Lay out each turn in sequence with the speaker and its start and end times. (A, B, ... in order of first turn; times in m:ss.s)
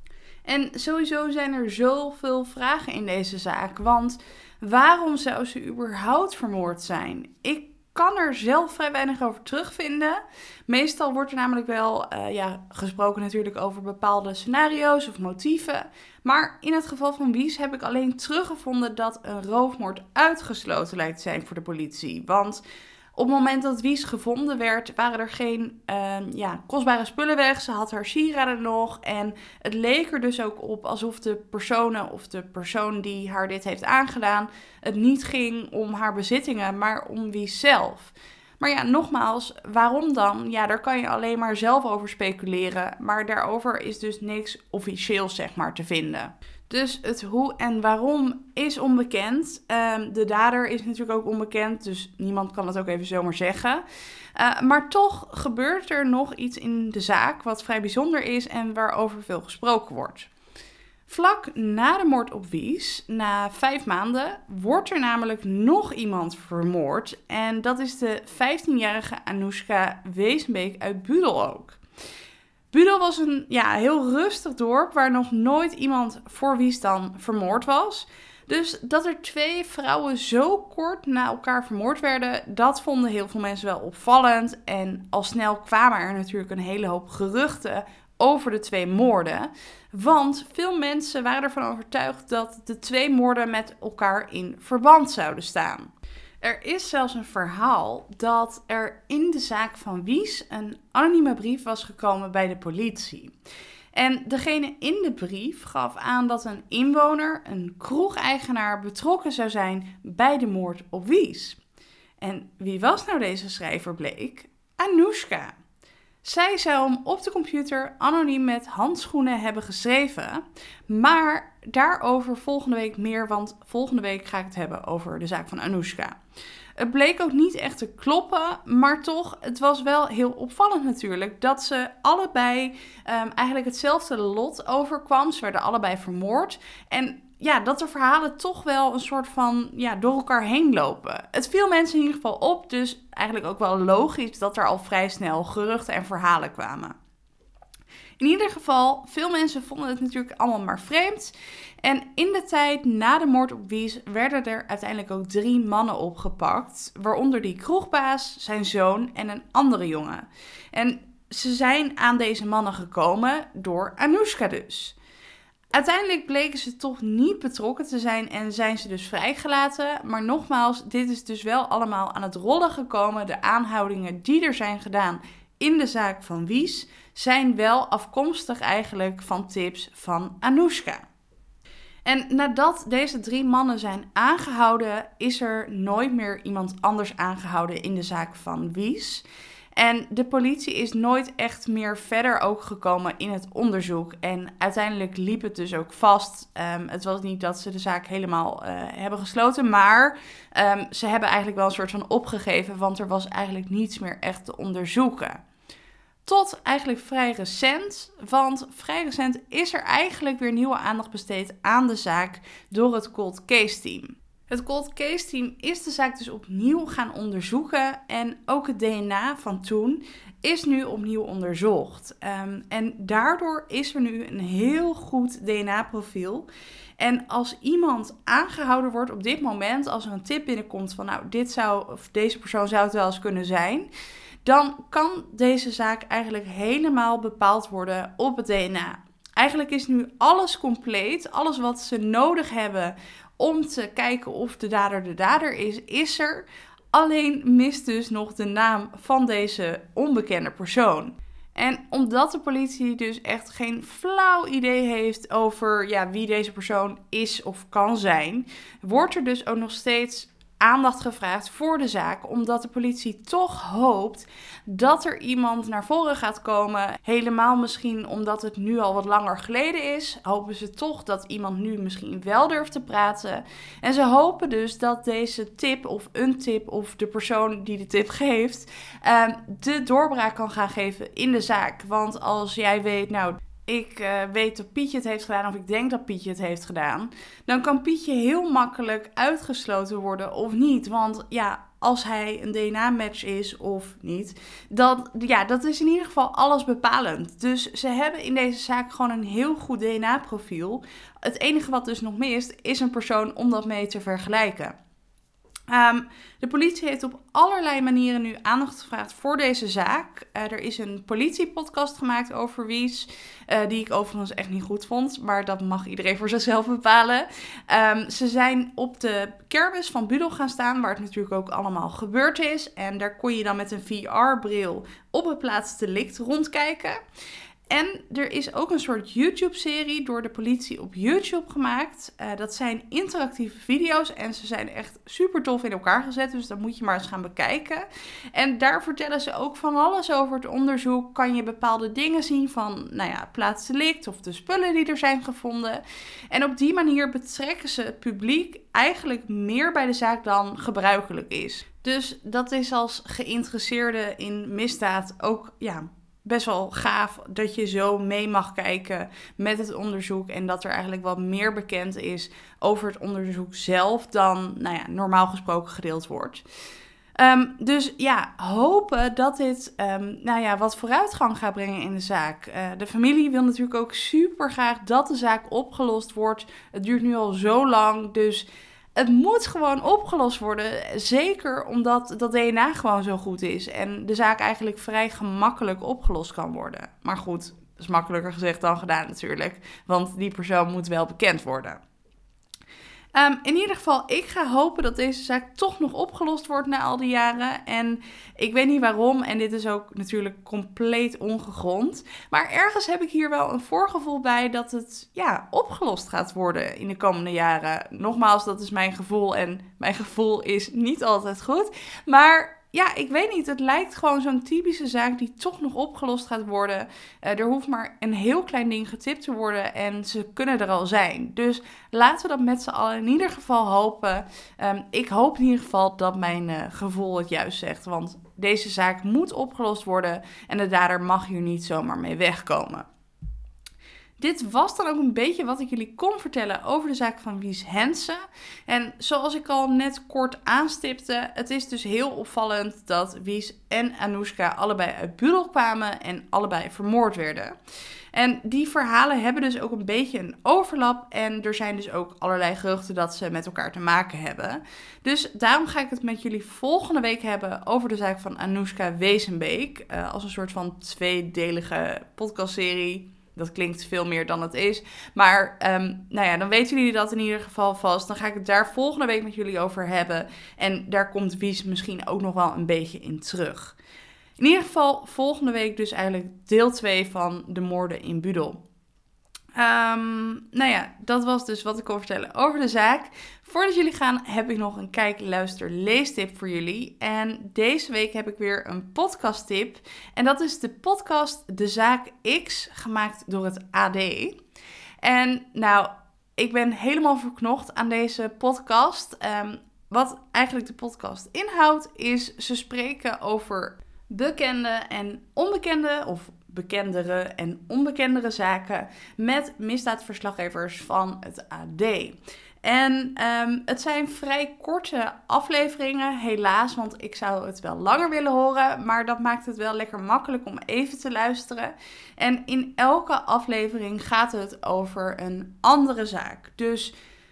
0:00.4-0:22.6 A
0:23.1-0:53.8 A
0:54.4-1:00.3 A
1:01.1-1:11.8 A
1:12.7-1:35.9 A
1:36.4-1:43.3 A
1:44.0-1:51.6 A
1:52.2-1:55.5 A
1:56.2-2:06.2 A
2:06.8-2:26.9 A
2:28.2-2:45.0 A
2:45.7-3:01.0 A
3:02.0-3:09.2 A
3:09.8-3:25.4 A
3:26.2-3:53.9 A
3:54.4-5:04.7 A
5:05.7-5:27.0 A
5:27.7-6:06.4 A
6:07.2-6:31.8 A
6:33.1-7:12.9 A
7:14.2-7:27.5 A
7:28.1-7:53.8 A
7:54.4-7:58.6 A
7:59.6-8:14.4 A
8:15.0-8:46.9 A